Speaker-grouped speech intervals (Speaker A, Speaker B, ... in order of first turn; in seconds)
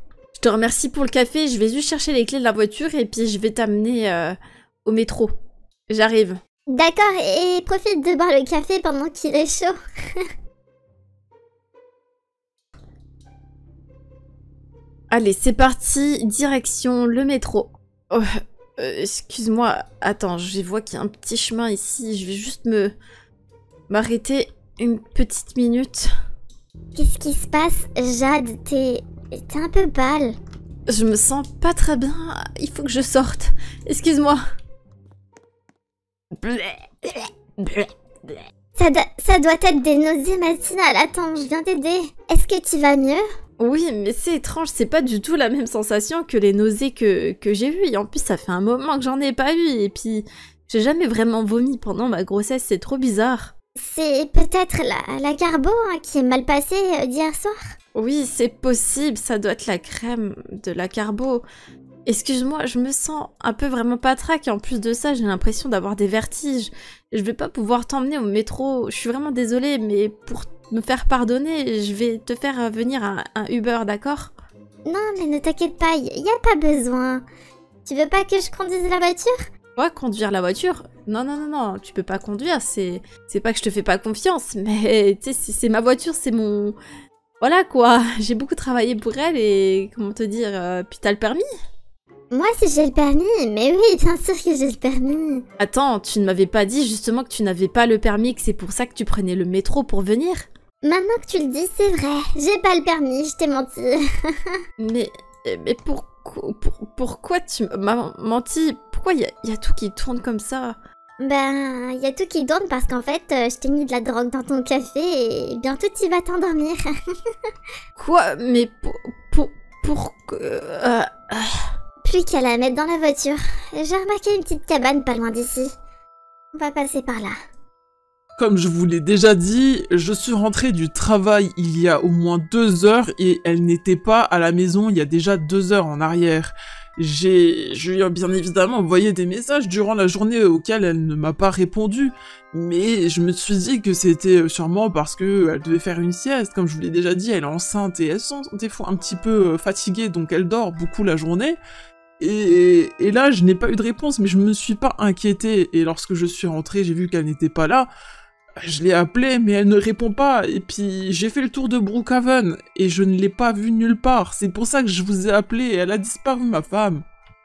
Speaker A: 0.4-5.3, 5.9-6.4, 15.1-22.9, 23.9-26.1, 30.9-34.4, 36.3-38.4, 43.6-53.5, 57.9-61.4, 62.0-74.3, 79.8-86.8, 87.4-91.4, 95.6-100.5, 104.8-110.8, 118.0-121.7
Speaker B: 6.7-10.3, 26.9-30.4, 38.8-43.2, 53.8-57.6, 74.8-77.2, 77.8-79.4, 92.3-95.4, 100.8-104.5, 111.2-117.5, 122.0-125.7, 126.5-127.3
Speaker C: 128.4-151.6, 152.2-157.9, 158.6-167.0